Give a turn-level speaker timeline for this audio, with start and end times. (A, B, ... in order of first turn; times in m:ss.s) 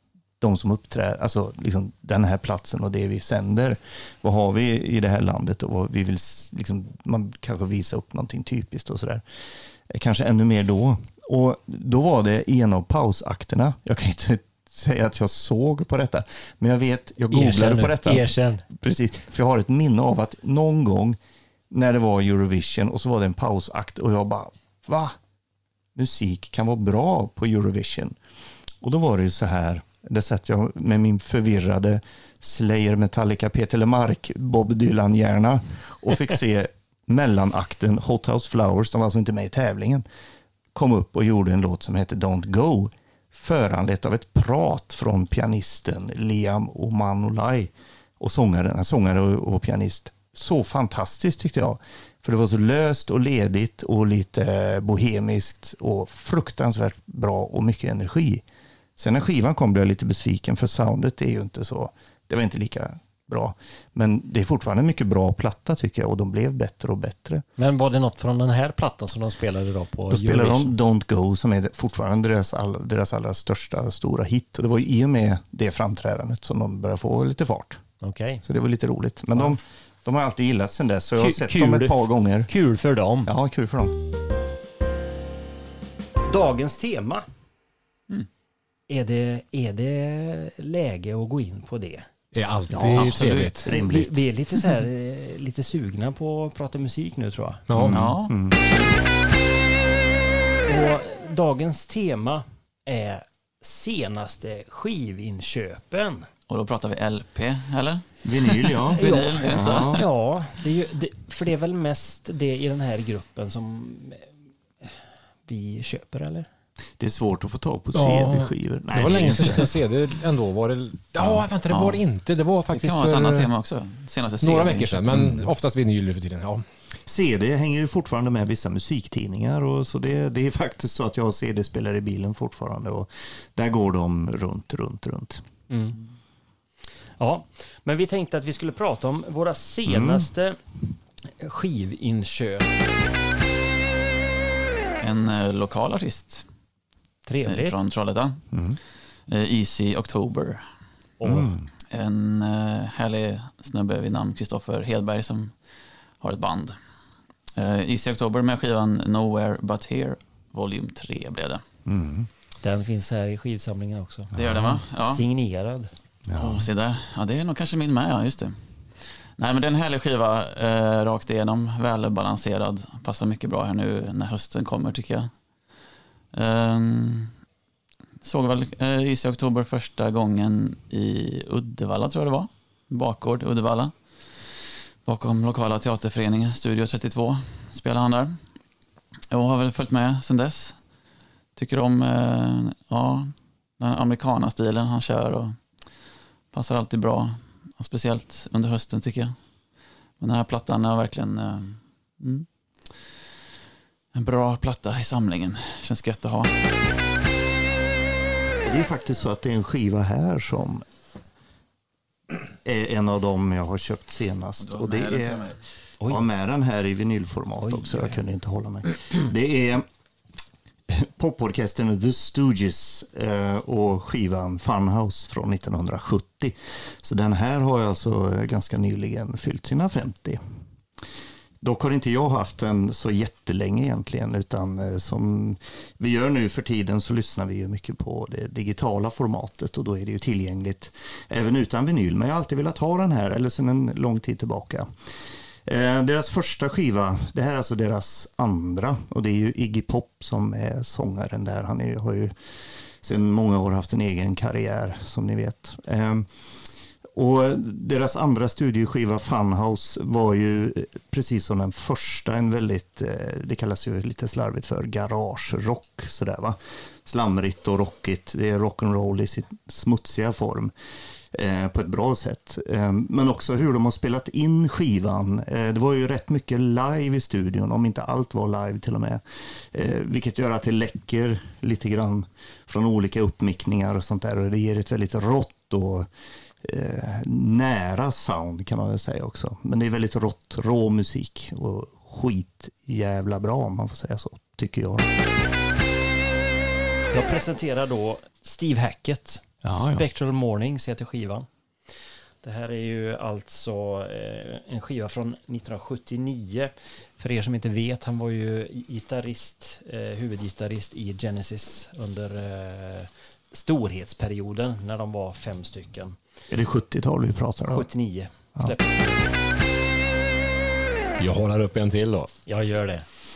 0:00.4-0:21.2 A
0:17.3-0:18.7 B
0:21.7-0:25.2 A
0:26.0-0:28.2 A
0:28.8-0:40.1 A
0:40.7-0:58.4 A
0:59.0-1:07.4 A
1:07.6-1:10.8 B
1:10.1-1:17.8 A
1:18.0-1:18.4 B
1:18.4-1:22.5 A
1:21.2-1:23.3 B
1:23.2-1:23.9 A
1:26.3-1:27.2 B
1:28.9-1:32.1 B
1:32.3-1:33.7 C
1:32.7-1:34.2 A
1:32.9-1:33.6 D
1:33.7-1:37.7 B
1:37.7-1:38.2 C
1:37.8-1:38.8 A
1:37.8-1:38.3 D
1:40.6-1:46.3 B
1:46.5-1:50.0 D
1:48.2-1:50.0 A
1:49.0-1:56.5 B
1:57.0-1:59.7 A
1:58.0-2:03.5 C
2:01.2-2:01.4 A
2:01.7-2:02.0 D
2:02.7-2:05.0 D
2:04.4-2:06.6 C
2:05.1-2:05.5 A
2:07.1-2:15.4 A
2:15.7-2:16.0 B
2:17.2-2:20.6 B
2:19.9-2:20.3 A
2:21.2-2:22.7 B
2:25.0-2:26.5 D
2:27.3-2:27.8 B
2:27.4-2:31.0 D
2:28.5-2:28.8 A
2:31.2-2:31.5 B
2:31.2-2:31.7 A
2:31.9-2:41.6 D
2:41.9-2:42.3 A
2:42.6-2:45.9 B
2:44.3-2:44.8 A
2:44.4-2:45.2 D
2:46.3-2:46.7 A
2:46.4-2:57.5 D
2:58.2-3:08.7 D
3:09.3-3:23.1 D
3:24.1-3:26.6 D
3:28.6-3:30.8 A
3:32.5-3:39.8 A
3:34.6-3:35.6 D
3:37.6-3:38.2 B
3:40.9-3:50.4 A
3:51.6-4:30.7 A
4:31.3-4:46.1 A
4:46.6-4:55.1 A
4:57.1-5:01.5 B
4:59.6-5:00.1 A
5:02.4-5:16.2 B
5:16.5-5:17.9 A
5:17.7-5:19.2 B
5:21.2-5:22.3 C
5:22.5-5:23.1 B